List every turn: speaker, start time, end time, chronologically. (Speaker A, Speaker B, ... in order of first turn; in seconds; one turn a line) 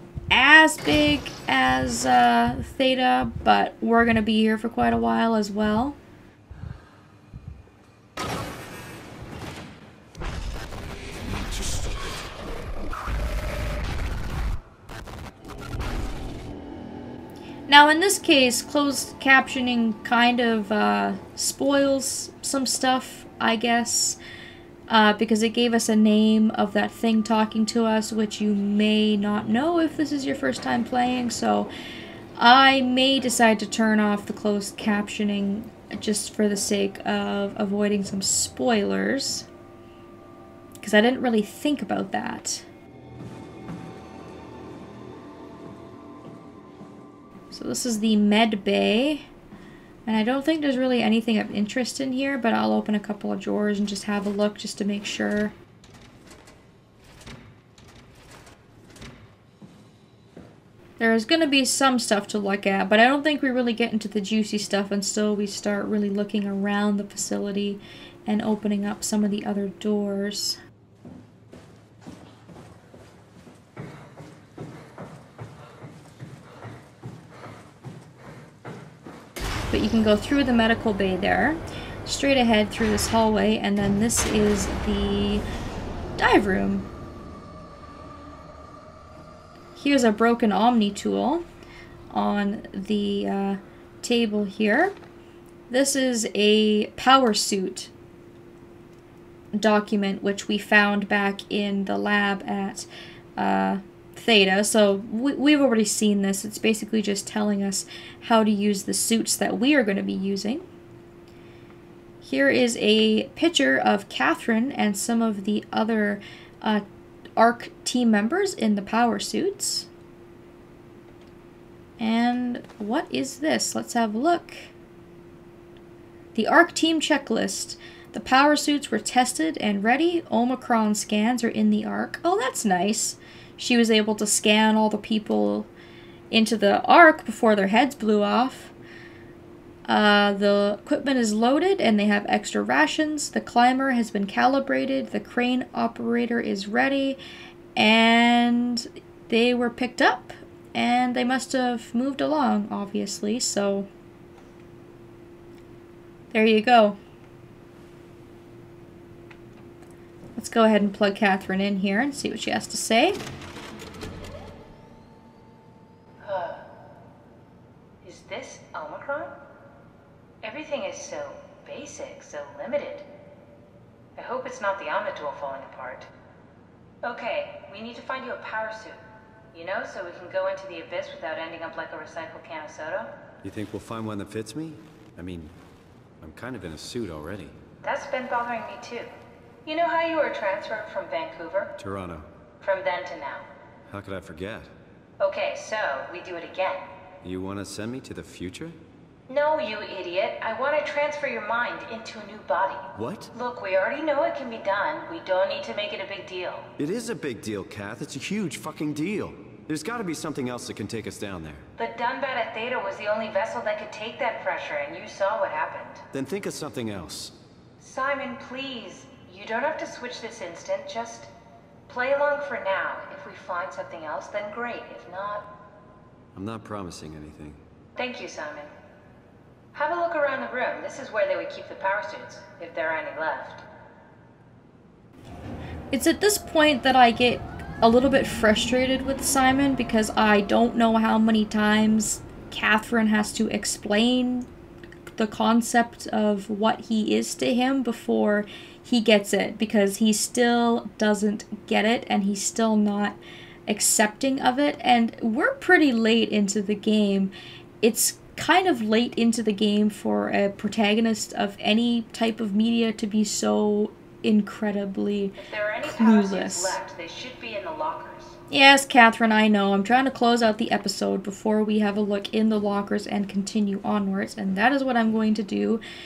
Speaker A: 0.3-6.0
Speaker A: 17.7-24.2
Speaker A: 24.9-31.7
Speaker A: 32.4-39.5
Speaker A: 40.8-42.7
Speaker A: 47.5-49.3
Speaker A: 50.1-55.5
Speaker A: 61.0-70.6
Speaker A: 79.7-85.4
Speaker A: 86.2-86.9
Speaker A: 89.8-91.4
Speaker A: 92.1-95.0
Speaker A: 95.7-97.9
Speaker A: 99.5-110.7
Speaker A: 112.2-116.8
Speaker A: 117.4-119.9
Speaker A: 122.0-124.7
Speaker A: 126.3-135.7
Speaker A: 136.3-138.7
Speaker A: 139.9-147.2
Speaker A: 147.8-153.9
Speaker A: 156.3-157.0
Speaker A: 160.4-163.2
Speaker B: 166.2-166.6
Speaker B: 168.0-169.4
Speaker B: 170.4-173.1
Speaker B: 174.2-176.1
Speaker B: 177.0-179.0
Speaker B: 179.5-183.1
Speaker C: 183.4-185.6
Speaker C: 186.2-187.6
Speaker B: 187.8-189.1
Speaker B: 189.7-191.7
Speaker C: 191.8-192.3
Speaker B: 192.6-193.5
Speaker C: 193.9-194.7
Speaker B: 195.2-196.8
Speaker C: 197.2-198.8
Speaker B: 199.3-206.7
Speaker C: 202.9-203.3
Speaker C: 206.8-211.7
Speaker B: 211.8-216.0
Speaker C: 216.1-217.3
Speaker B: 217.8-221.3
Speaker B: 221.9-225.5
Speaker C: 226.3-227.6
Speaker B: 228.0-228.7
Speaker B: 229.7-233.6
Speaker A: 235.9-244.5
Speaker A: 245.2-266.8
Speaker B: 265.4-268.4
Speaker A: 268.5-275.8